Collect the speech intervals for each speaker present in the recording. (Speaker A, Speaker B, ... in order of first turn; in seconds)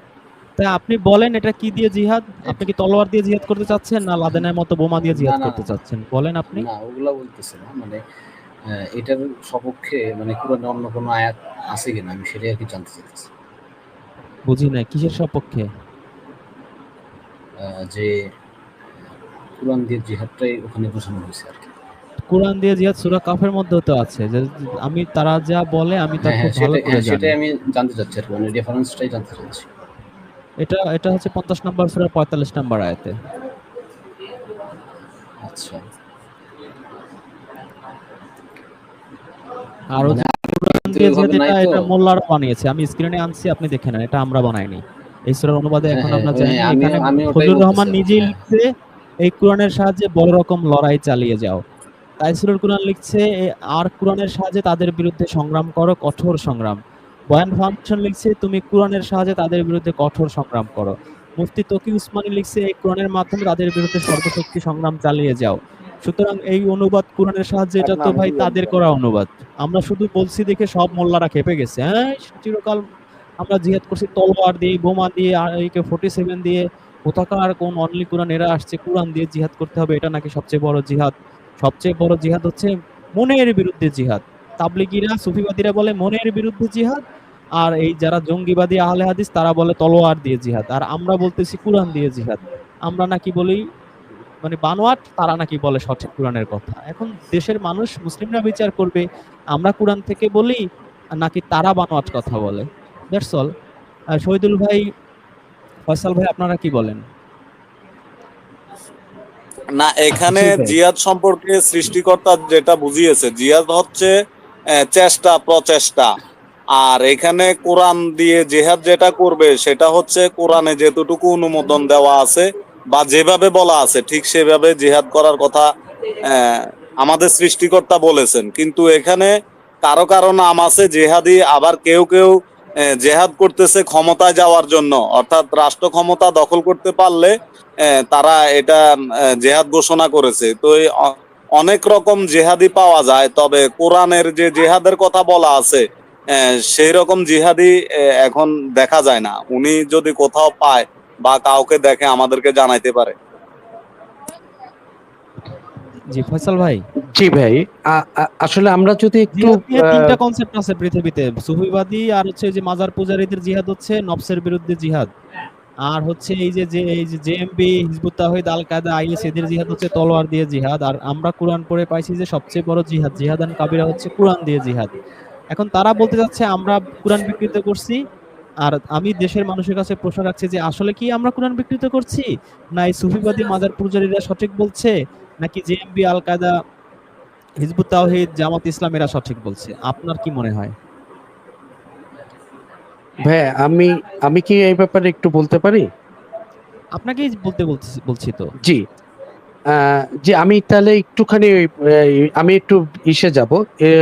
Speaker A: 0.6-6.7, 14.5-15.7, 22.3-27.4, 30.6-33.1, 39.9-48.6, 49.2-51.6, 52.2-56.8, 57.3-72.8, 73.4-87.0, 87.6-93.6, 94.4-100.6, 101.2-103.5, 104.2-104.8, 105.9-107.0, 156.1-156.8, 159.3-165.1, 165.9-174.9, 175.5-177.9, 178.6-182.2, 182.8-184.9, 185.4-186.5, 187.6-190.7, 197.0-198.5
Speaker B: 5.1-5.7, 6.5-8.0, 8.9-13.3, 17.6-18.1, 19.6-21.7, 26.2-29.7, 35.4-35.8, 40.0-41.9, 45.9-48.4
Speaker C: 67.8-68.8, 110.2-110.8, 157.1-160.0, 193.3-195.9, 199.8-201.6, 202.4-203.8
Speaker D: 109.8-114.1, 114.8-116.1, 116.7-125.7, 126.3-153.1